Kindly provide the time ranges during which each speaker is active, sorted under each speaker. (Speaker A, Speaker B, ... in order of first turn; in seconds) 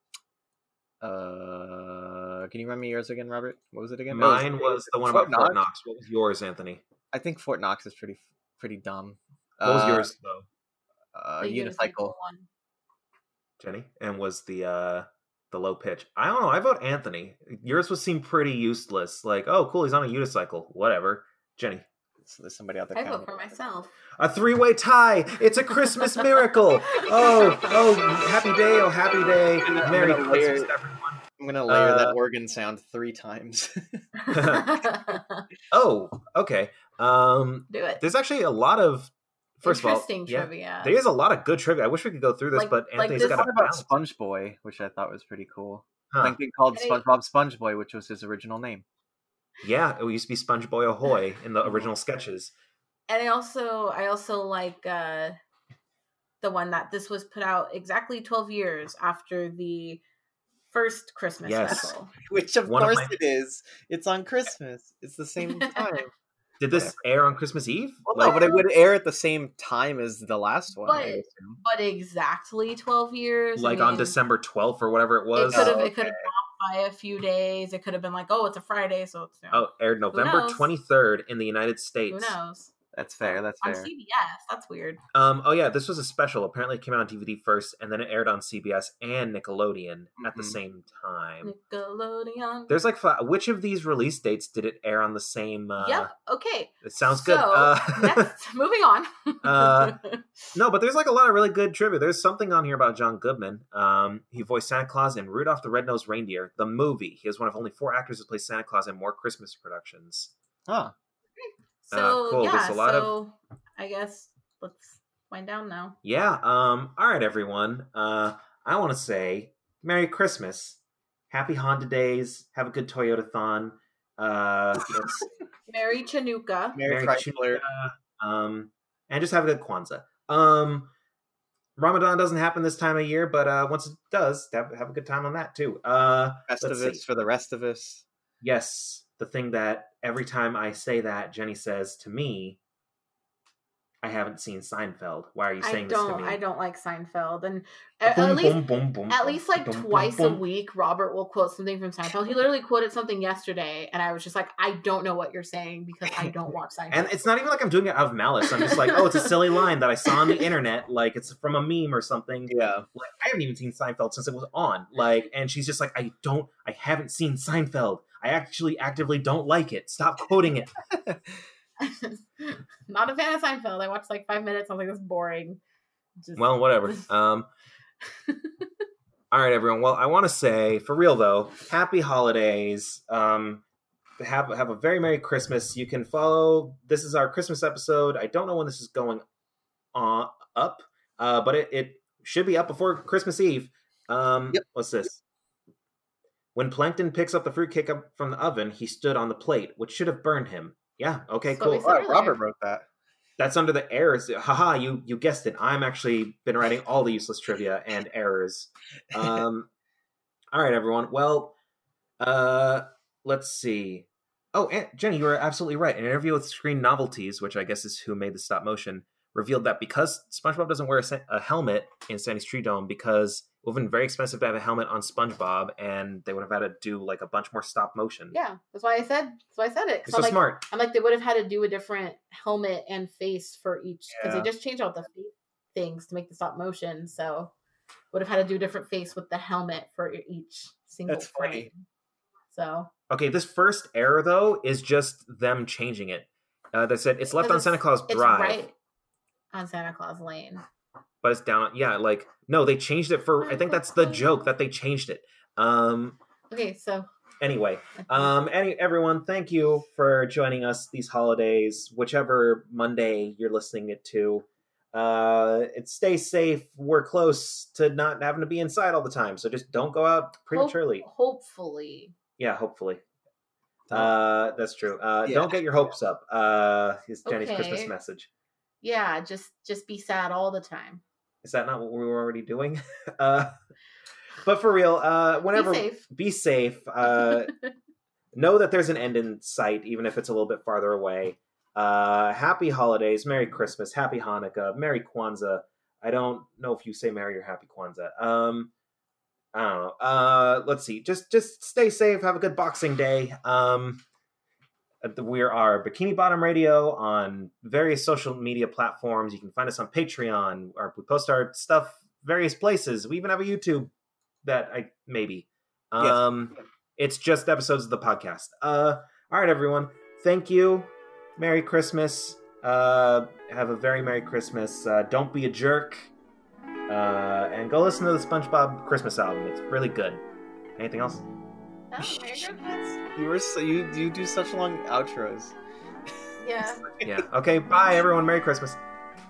Speaker A: 1.0-5.6, 7.1-10.1, 11.2-12.1, 22.2-23.3, 29.6-30.7, 31.4-34.0, 43.2-48.9, 61.7-66.1, 66.7-67.0, 68.1-71.6, 75.5-76.3, 82.9-83.9, 90.2-90.6, 110.7-110.9, 126.7-127.6, 136.5-138.0, 162.5-162.9, 170.9-171.2, 201.8-202.8, 241.1-241.7, 273.9-274.1, 275.2-275.6, 332.0-332.5, 333.1-335.6
Speaker B: 4.1-6.8, 9.6-10.5, 13.6-21.9, 24.2-32.2, 34.3-34.9, 35.7-43.9, 46.1-46.4, 49.6-52.5, 61.5-61.9, 62.6-63.2, 66.6-68.4, 73.6-75.8, 79.5-82.4, 85.1-91.5, 92.7-96.1, 96.8-98.3, 99.4-100.0, 100.5-110.3, 111.9-113.1, 116.0-120.8, 121.3-125.3, 126.9-130.9, 131.8-137.0, 138.4-142.6, 144.0-146.4, 148.1-150.4, 156.9-170.7, 176.4-177.5, 179.3-183.6, 184.2-189.2, 189.9-195.2, 196.6-201.9, 203.4-209.7, 210.5-211.6, 212.2-228.4, 230.1-230.6, 234.1-234.5, 243.1-248.6, 251.2-256.2, 257.4-271.1, 272.4-273.0, 273.9-278.3, 281.4-283.6, 284.4-287.5, 288.3-298.7, 299.5-304.0, 305.0-313.9, 314.4-326.1, 326.9-330.2, 330.8-331.2, 337.0-338.8
Speaker C: 11.4-12.5, 22.9-23.9, 26.9-27.8, 34.2-35.5, 37.7-38.0, 39.6-41.0, 42.5-43.5, 46.7-47.0, 53.1-55.4, 56.4-60.0, 60.7-62.1, 65.4-66.0, 68.2-68.6, 70.8-74.2, 75.4-80.7, 82.1-85.0, 91.4-92.8, 95.8-100.2, 111.4-116.0, 125.7-126.8, 145.6-157.2, 158.4-160.5, 171.8-175.6, 176.2-177.1, 178.3-178.7, 201.5-202.4, 228.3-237.5, 238.1-241.8, 242.5-242.9, 247.3-248.7, 249.5-250.6, 253.4-254.3, 256.5-257.1, 258.0-258.3, 270.5-272.1, 277.3-277.9, 278.8-281.0, 285.5-286.1, 287.0-287.7, 331.9-333.0, 336.4-336.9